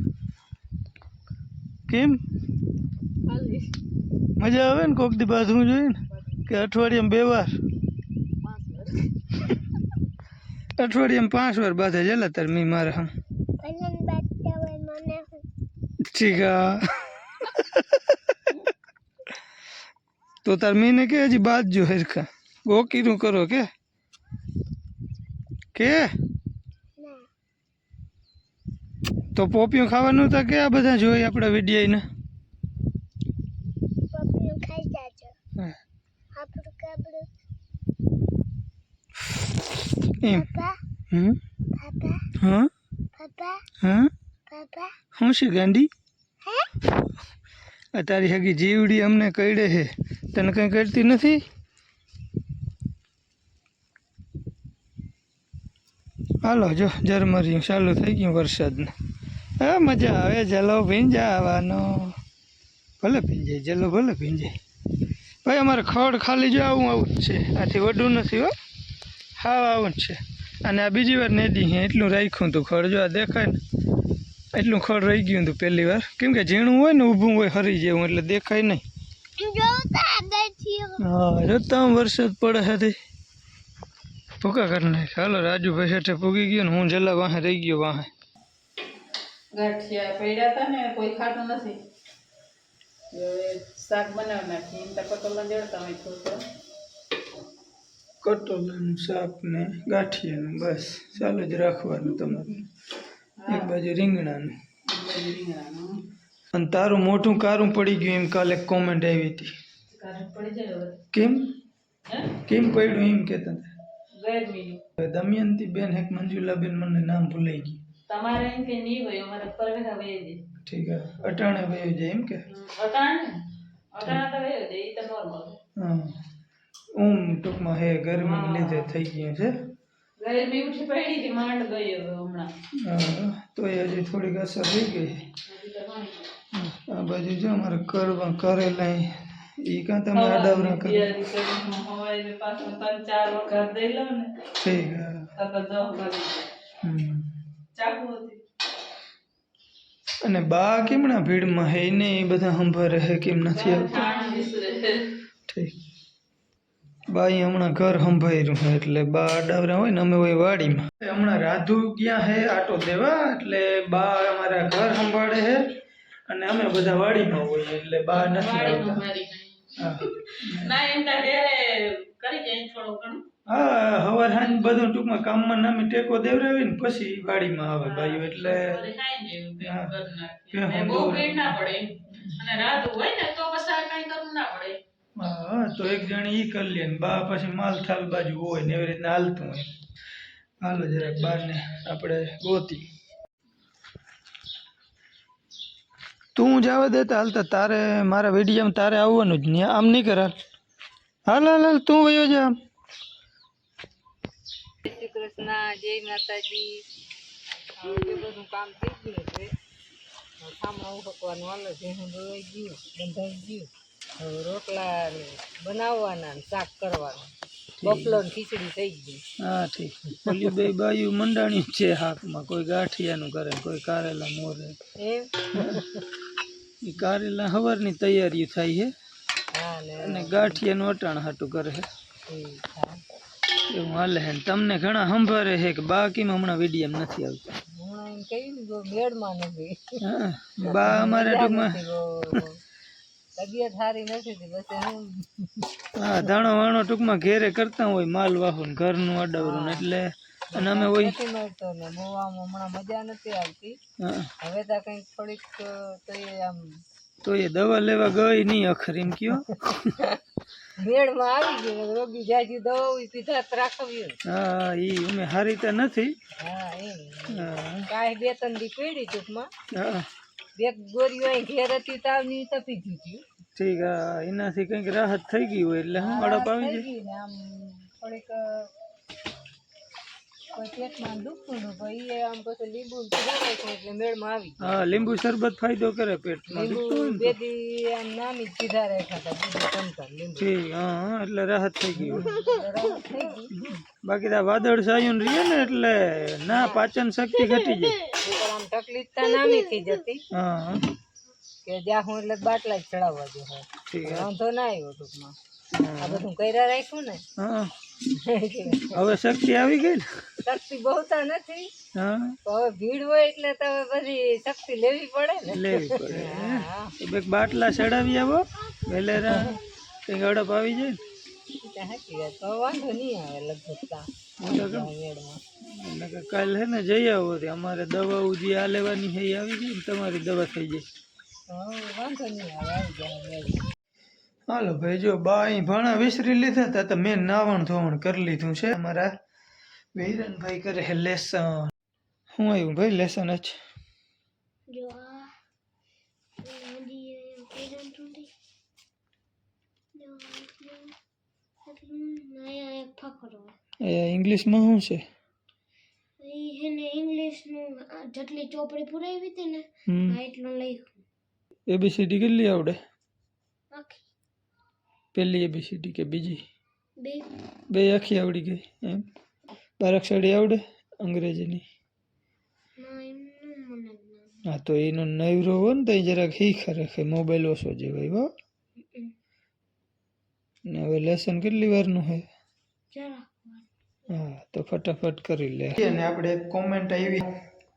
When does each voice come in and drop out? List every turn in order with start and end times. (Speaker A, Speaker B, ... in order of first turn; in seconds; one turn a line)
Speaker A: 1.9-2.2
Speaker B: 3.3-3.6
Speaker A: 4.4-7.6
Speaker B: 8.4-8.8
Speaker A: 10.8-13.1
Speaker C: 13.6-15.4
Speaker A: 16.0-18.7
Speaker A: 20.4-23.7
Speaker A: 25.8-26.1
Speaker C: 27.0-27.2
Speaker A: 29.4-32.0
Speaker C: 34.1-35.3
Speaker C: 36.4-37.3
Speaker A: 40.2-40.5
Speaker C: 40.3-40.8
Speaker A: 41.1-41.4
Speaker C: 41.8-42.2
Speaker A: 42.4-42.7
Speaker C: 43.1-43.6
Speaker A: 43.8-44.1
Speaker C: 44.5-44.9
Speaker A: 45.1-45.9
Speaker C: 46.4-46.7
Speaker A: 47.9-51.4
Speaker A: 56.4-58.9
Speaker A: 59.6-62.2
Speaker A: 63.0-64.5
Speaker A: 65.4-68.5
Speaker A: 69.4-73.6
Speaker A: 74.5-78.8
Speaker C: 79.4-81.0
Speaker A: 81.0-83.0
Speaker A: 84.4-88.1
Speaker B: 89.5-91.8
Speaker B: 93.1-96.4
Speaker A: 98.2-102.6
Speaker B: 103.4-103.7
Speaker A: 103.5-104.6
Speaker B: 104.9-106.0
Speaker A: 106.5-109.5
Speaker B: 109.9-111.0
Speaker A: 111.1-111.6
Speaker B: 112.1-112.3
Speaker A: 112.4-113.7
Speaker B: 114.2-114.8
Speaker A: 115.0-117.8
Speaker B: 118.1-120.4
Speaker A: 120.7-122.5
Speaker B: 122.5-123.4
Speaker B: 123.9-125.6
Speaker A: 125.8-126.2
Speaker A: 126.9-129.6
Speaker B: 128.2-129.0
Speaker B: 130.2-132.5
Speaker A: 132.7-135.3
Speaker B: 135.5-136.3
Speaker A: 136.5-141.2
Speaker B: 140.1-144.5
Speaker A: 144.6-145.3
Speaker B: 145.4-146.5
Speaker A: 146.8-147.4
Speaker B: 147.8-148.4
Speaker A: 150.2-154.0
Speaker B: 153.5-155.1
Speaker A: 155.5-155.8
Speaker A: 157.1-165.8
Speaker A: 166.3-169.1
Speaker B: 168.1-173.2
Speaker A: 169.8-170.8
Speaker A: 173.5-178.8
Speaker B: 177.8-184.8
Speaker A: 179.6-179.9
Speaker A: 180.5-181.6
Speaker A: 185.2-189.8
Speaker A: 190.6-192.9
Speaker A: 196.3-200.4
Speaker A: 201.3-202.6
Speaker D: 204.9-206.8
Speaker D: 207.7-209.5
Speaker D: 210.4-217.3
Speaker A: 217.8-218.2
Speaker D: 217.8-219.2
Speaker A: 219.4-224.8
Speaker D: 225.0-226.0
Speaker A: 226.8-228.9
Speaker D: 229.5-230.6
Speaker A: 230.0-231.9
Speaker D: 232.3-233.0
Speaker A: 233.7-237.5
Speaker D: 237.8-240.0
Speaker A: 240.0-241.8
Speaker D: 240.7-242.6
Speaker D: 243.4-245.7
Speaker A: 246.0-251.2
Speaker D: 249.3-249.8
Speaker D: 250.5-253.8
Speaker A: 254.0-254.3
Speaker D: 254.4-256.8
Speaker A: 257.2-259.9
Speaker D: 260.8-264.2
Speaker A: 264.3-266.1
Speaker D: 266.4-269.5
Speaker A: 267.3-267.9
Speaker A: 269.7-270.1
Speaker D: 270.6-273.2
Speaker A: 273.6-276.9
Speaker D: 276.0-278.7
Speaker D: 280.5-285.1
Speaker A: 284.6-287.4
Speaker D: 286.5-290.5
Speaker A: 290.4-292.6
Speaker D: 292.4-293.5
Speaker A: 293.6-298.0
Speaker D: 296.5-296.9
Speaker D: 298.1-300.2
Speaker A: 300.3-300.9
Speaker D: 301.6-305.4
Speaker A: 303.9-304.3
Speaker A: 305.7-306.3
Speaker D: 306.0-307.2
Speaker A: 307.4-307.7
Speaker D: 308.1-309.0
Speaker A: 308.9-310.4
Speaker D: 310.5-311.7
Speaker A: 311.9-312.4
Speaker D: 312.5-316.9
Speaker A: 315.5-321.0
Speaker D: 321.6-325.4
Speaker A: 324.4-324.9
Speaker A: 325.6-330.9
Speaker D: 331.5-333.7
Speaker A: 334.5-339.1
Speaker A: 339.9-341.7
Speaker A: 342.3-343.6
Speaker C: 344.7-345.3
Speaker C: 346.4-348.3
Speaker C: 350.0-350.9
Speaker C: 351.7-353.6
Speaker A: 353.8-355.0
Speaker C: 356.2-360.9
Speaker A: 359.9-360.2
Speaker A: 361.7-362.8
Speaker C: 363.7-364.0
Speaker A: 365.1-366.4
Speaker C: 367.0-367.3
Speaker A: 367.7-369.1
Speaker A: 369.8-371.6
Speaker C: 372.8-374.4
Speaker A: 374.5-378.3
Speaker A: 380.7-382.3
Speaker C: 382.9-383.7
Speaker A: 384.1-387.4